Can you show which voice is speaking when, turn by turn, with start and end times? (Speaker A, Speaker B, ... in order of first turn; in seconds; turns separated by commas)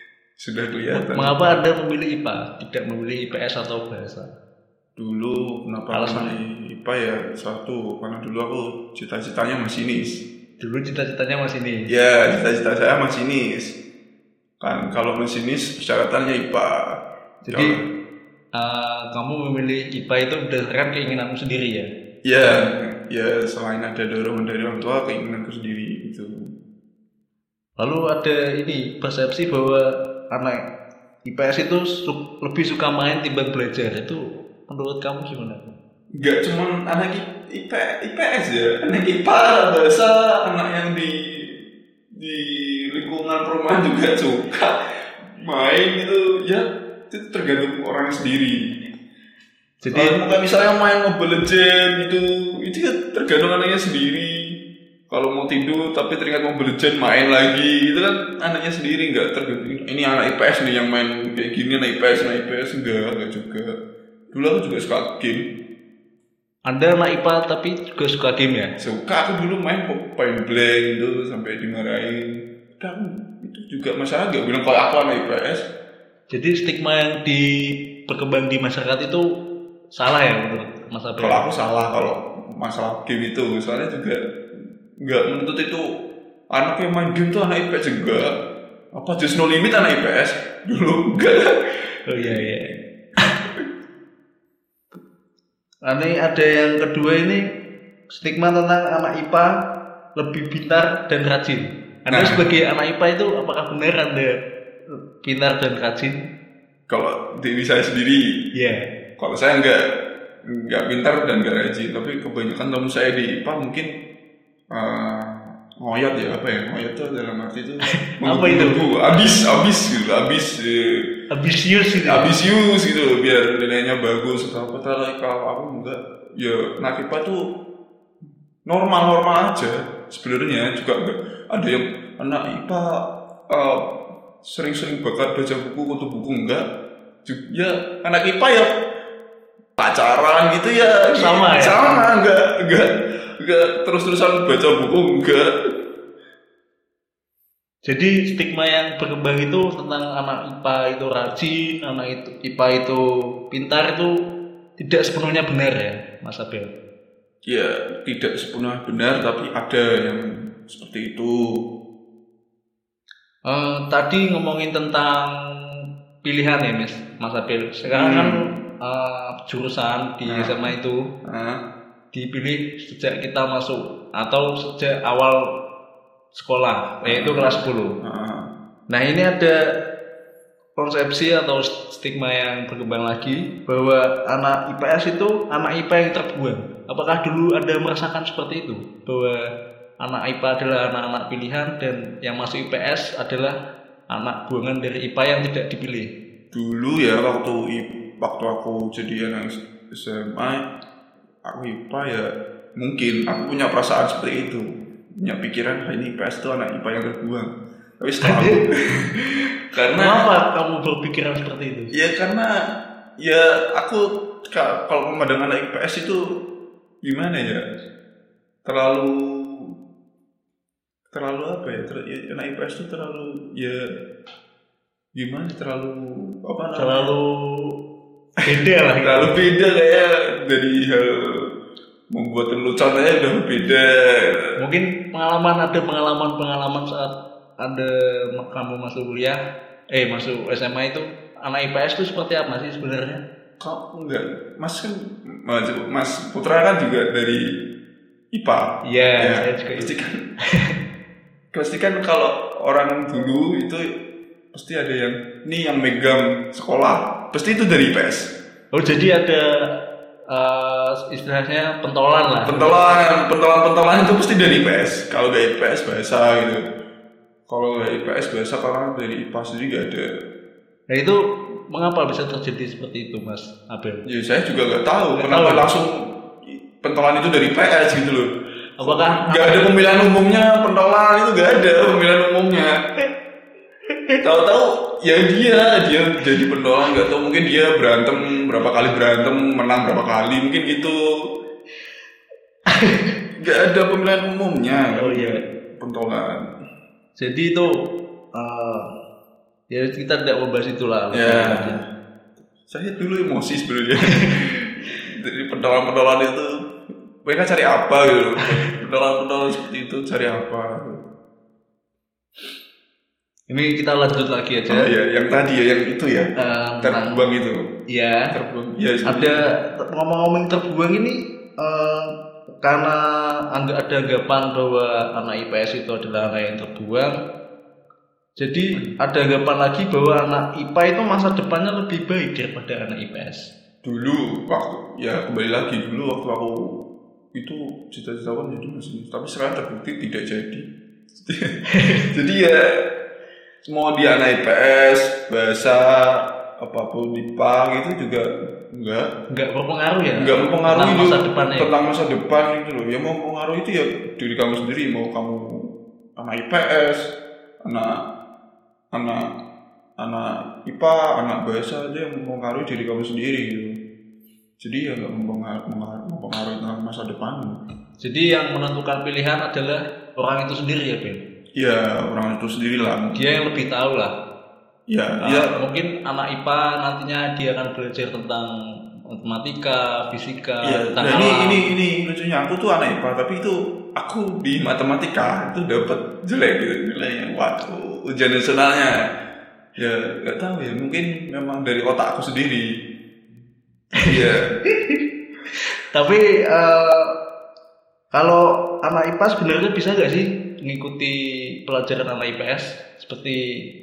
Speaker A: 0.4-1.6, Speaker B: 0.9-4.3, Speaker A: 5.0-10.2, Speaker B: 5.9-6.3, Speaker B: 10.6-11.8, Speaker A: 11.9-13.8, Speaker A: 14.6-16.9, Speaker A: 17.4-17.8, Speaker B: 17.5-17.8, Speaker B: 18.5-21.9, Speaker A: 22.2-26.3, Speaker B: 27.8-30.6, Speaker B: 31.3-35.8, Speaker A: 36.2-41.5, Speaker A: 42.2-44.8, Speaker A: 45.4-48.5, Speaker B: 49.8-50.1, Speaker A: 49.9-54.4, Speaker A: 55.1-63.7, Speaker A: 64.3-65.5, Speaker B: 66.7-68.7, Speaker A: 68.8-75.6, Speaker B: 76.3-79.2, Speaker B: 79.9-81.5, Speaker A: 81.2-84.2, Speaker A: 85.0-85.8, Speaker A: 86.5-88.3, Speaker A: 89.0-91.5, Speaker B: 92.1-92.7, Speaker A: 92.1-92.4, Speaker B: 95.8-97.4, Speaker B: 98.1-99.5, Speaker B: 100.2-104.3, Speaker A: 102.1-102.5, Speaker B: 105.2-106.2, Speaker A: 106.9-108.2, Speaker B: 108.5-108.8, Speaker A: 109.2-109.8, Speaker A: 110.5-113.9, Speaker A: 114.7-121.0, Speaker B: 118.2-118.8, Speaker B: 121.3-122.3, Speaker A: 122.0-127.4, Speaker A: 128.7-132.8, Speaker A: 133.5-133.8, Speaker A: 134.4-136.6, Speaker A: 137.2-138.7, Speaker A: 139.8-142.9, Speaker B: 141.1-142.1, Speaker A: 143.4-145.5, Speaker B: 147.8-154.1, Speaker B: 154.8-156.7, Speaker A: 157.5-161.4, Speaker B: 163.5-165.3, Speaker B: 166.2-171.0, Speaker A: 167.9-168.4, Speaker A: 170.3-170.7, Speaker A: 171.2-171.6, Speaker B: 172.1-175.4, Speaker B: 176.3-177.9, Speaker A: 177.1-178.5, Speaker B: 178.9-179.6, Speaker B: 180.8-189.4, Speaker B: 190.0-193.6, Speaker B: 194.1-196.1, Speaker A: 196.5-200.6, Speaker A: 201.5-202.3, Speaker A: 202.8-204.7, Speaker A: 205.2-207.5, Speaker A: 208.0-210.3, Speaker B: 208.2-208.6, Speaker B: 210.0-211.9, Speaker A: 211.9-212.5, Speaker A: 213.2-216.2, Speaker A: 217.0-217.6, Speaker A: 218.6-219.4, Speaker A: 221.1-223.8, Speaker A: 225.2-227.1, Speaker B: 226.8-227.3, Speaker B: 228.4-229.3, Speaker A: 229.0-231.4, Speaker A: 232.1-234.5, Speaker B: 234.6-239.4, Speaker B: 239.9-243.2, Speaker A: 243.6-247.4, Speaker A: 248.3-250.2, Speaker B: 248.8-249.9, Speaker A: 251.5-253.8, Speaker A: 254.5-258.3, Speaker B: 258.7-259.4, Speaker B: 260.3-262.8, Speaker A: 262.4-266.6, Speaker A: 267.5-270.1, Speaker B: 270.9-271.2, Speaker B: 271.7-274.0, Speaker A: 274.1-275.9, Speaker B: 275.1-275.6, Speaker A: 276.5-278.3, Speaker B: 278.8-279.7, Speaker A: 278.8-282.7, Speaker A: 284.2-291.0, Speaker B: 292.7-293.1, Speaker A: 293.4-296.4, Speaker B: 294.9-295.4, Speaker B: 297.2-297.7, Speaker B: 298.4-298.9, Speaker B: 299.7-301.8, Speaker A: 301.1-301.8, Speaker A: 302.6-306.5, Speaker A: 307.2-311.0, Speaker B: 313.5-314.9, Speaker A: 314.7-316.3, Speaker B: 316.4-317.2, Speaker A: 316.8-317.6, Speaker B: 317.9-318.3, Speaker A: 318.3-319.4, Speaker B: 319.1-322.1, Speaker B: 322.6-323.0, Speaker B: 323.5-327.1, Speaker B: 328.4-333.5, Speaker A: 333.8-336.8, Speaker A: 337.3-340.6, Speaker A: 341.2-341.5, Speaker B: 341.7-342.1, Speaker A: 342.1-342.8, Speaker A: 343.7-349.1, Speaker B: 349.3-351.7, Speaker A: 350.2-355.4, Speaker A: 356.2-358.0, Speaker A: 358.9-359.2, Speaker A: 360.0-363.7, Speaker A: 364.6-367.5, Speaker B: 368.0-371.2, Speaker A: 371.6-373.2, Speaker B: 373.1-374.1, Speaker A: 374.9-375.5, Speaker B: 375.2-378.5, Speaker B: 379.1-381.7, Speaker A: 380.6-388.9, Speaker A: 389.8-392.6, Speaker A: 394.0-394.5, Speaker B: 394.7-395.0, Speaker B: 395.9-397.1, Speaker B: 398.1-403.4